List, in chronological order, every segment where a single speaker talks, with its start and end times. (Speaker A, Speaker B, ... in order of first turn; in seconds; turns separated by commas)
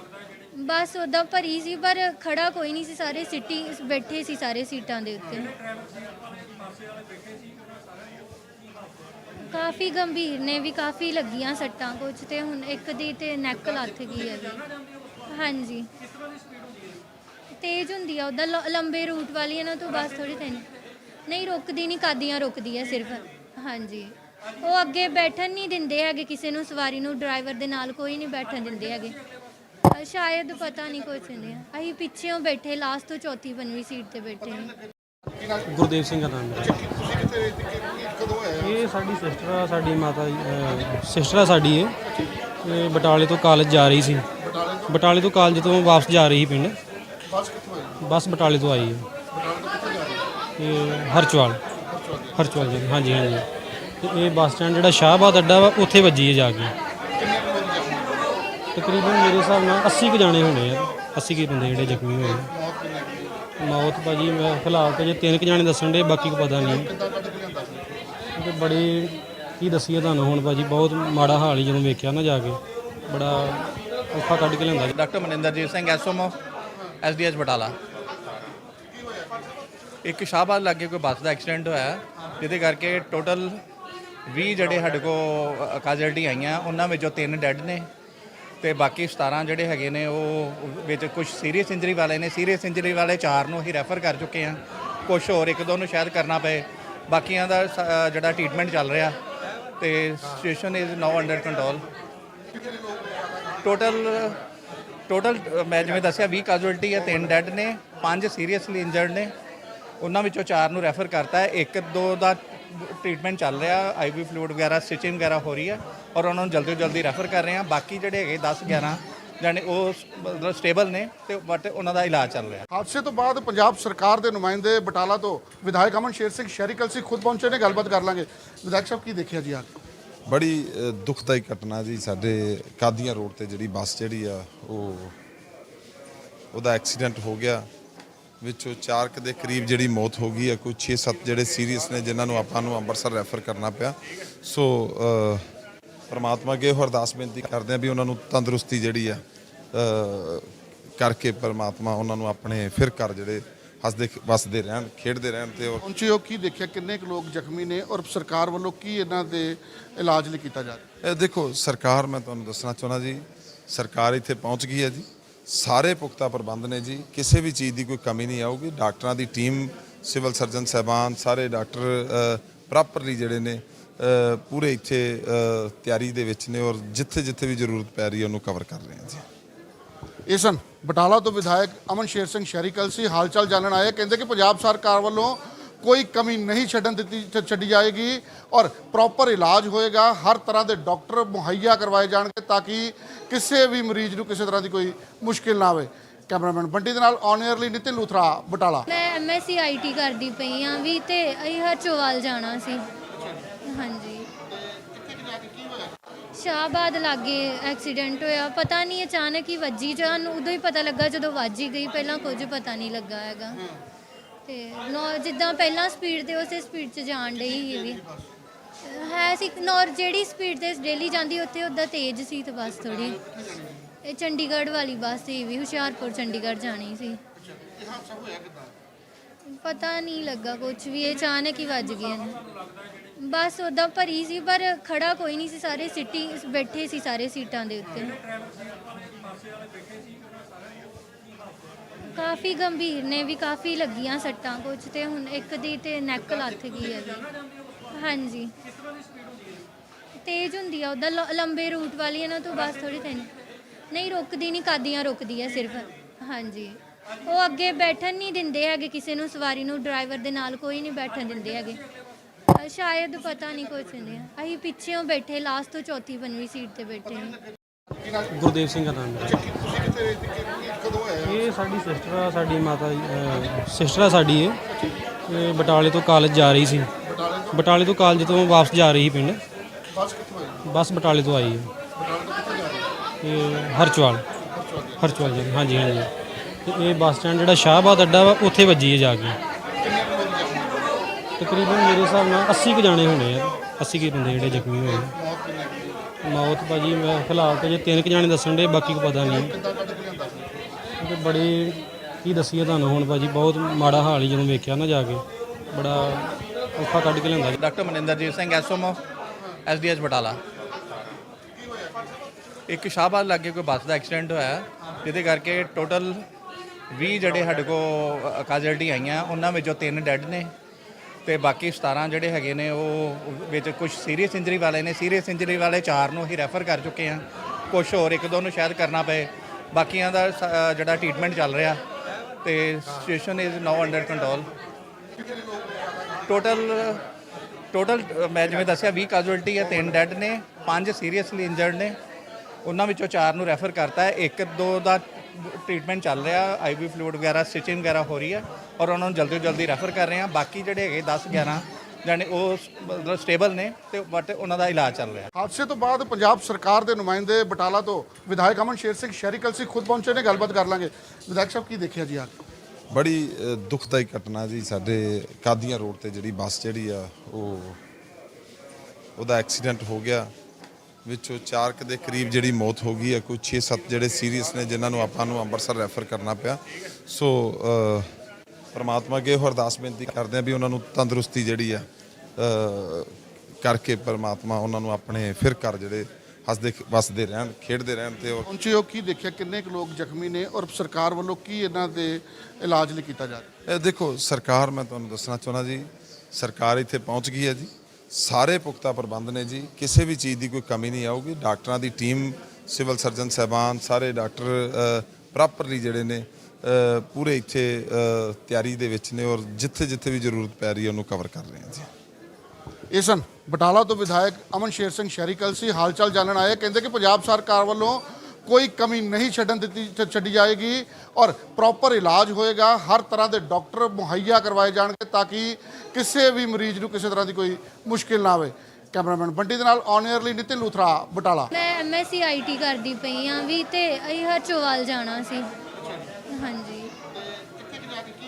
Speaker A: 0.5-5.6, Speaker A: 9.4-14.7, Speaker A: 15.3-15.9, Speaker A: 17.6-20.7, Speaker A: 21.3-29.2, Speaker A: 29.9-34.7, Speaker B: 35.5-37.1, Speaker C: 37.3-38.5, Speaker B: 38.5-42.0, Speaker B: 42.6-44.3, Speaker C: 44.4-44.8, Speaker B: 44.9-46.8, Speaker C: 47.3-48.0, Speaker B: 48.0-49.1, Speaker C: 49.3-50.3, Speaker B: 50.6-51.6, Speaker C: 51.8-52.3, Speaker B: 52.3-53.5, Speaker B: 54.0-56.7, Speaker C: 57.2-58.3, Speaker B: 58.8-62.5, Speaker C: 62.5-63.4, Speaker B: 63.6-66.9, Speaker C: 66.6-68.2, Speaker B: 68.4-74.9, Speaker D: 74.9-76.3, Speaker D: 77.0-77.8, Speaker D: 80.0-83.6, Speaker D: 84.3-87.9, Speaker D: 88.6-99.2, Speaker D: 99.8-101.9, Speaker D: 103.6-104.4, Speaker D: 105.1-109.3, Speaker D: 110.0-122.6, Speaker C: 122.7-129.7, Speaker E: 130.3-135.2, Speaker E: 136.5-137.7, Speaker E: 138.4-145.5, Speaker E: 146.1-149.2, Speaker E: 149.7-155.8, Speaker C: 155.8-160.8, Speaker E: 161.0-179.3, Speaker C: 180.3-198.9, Speaker A: 198.9-202.9, Speaker A: 203.7-204.3, Speaker A: 206.3-213.7, Speaker A: 214.5-218.1, Speaker A: 218.8-223.3, Speaker A: 224.0-227.2, Speaker C: 227.8-228.5, Speaker A: 229.5-232.4, Speaker A: 233.2-238.2, Speaker A: 242.1-247.3, Speaker A: 247.9-248.5, Speaker A: 250.2-253.3, Speaker A: 253.9-261.8, Speaker A: 262.5-267.4, Speaker B: 268.3-269.5, Speaker C: 269.5-271.2, Speaker B: 271.2-274.6, Speaker B: 275.3-276.9, Speaker C: 277.1-277.5, Speaker B: 277.5-279.4, Speaker C: 279.9-280.6, Speaker B: 280.6-281.7, Speaker C: 282.0-282.9, Speaker B: 283.2-284.3, Speaker C: 284.5-284.9, Speaker B: 285.0-286.1, Speaker B: 286.7-289.4, Speaker C: 289.8-290.9, Speaker B: 291.4-295.1, Speaker C: 295.1-296.1, Speaker B: 296.2-299.5, Speaker C: 299.3-300.8, Speaker B: 301.0-307.6, Speaker D: 307.5-309.0, Speaker D: 309.7-310.4, Speaker D: 312.7-316.2, Speaker D: 316.9-320.5, Speaker D: 321.2-331.8, Speaker D: 332.4-334.5, Speaker D: 336.3-337.0, Speaker D: 337.7-342.0, Speaker D: 342.6-355.3, Speaker C: 355.4-362.4, Speaker E: 362.9-367.8, Speaker E: 369.2-370.3, Speaker E: 371.1-378.1, Speaker E: 378.7-381.9, Speaker E: 382.4-388.5, Speaker C: 388.5-393.5, Speaker E: 393.7-411.9, Speaker C: 412.9-431.5, Speaker A: 431.5-435.5, Speaker A: 436.3-436.9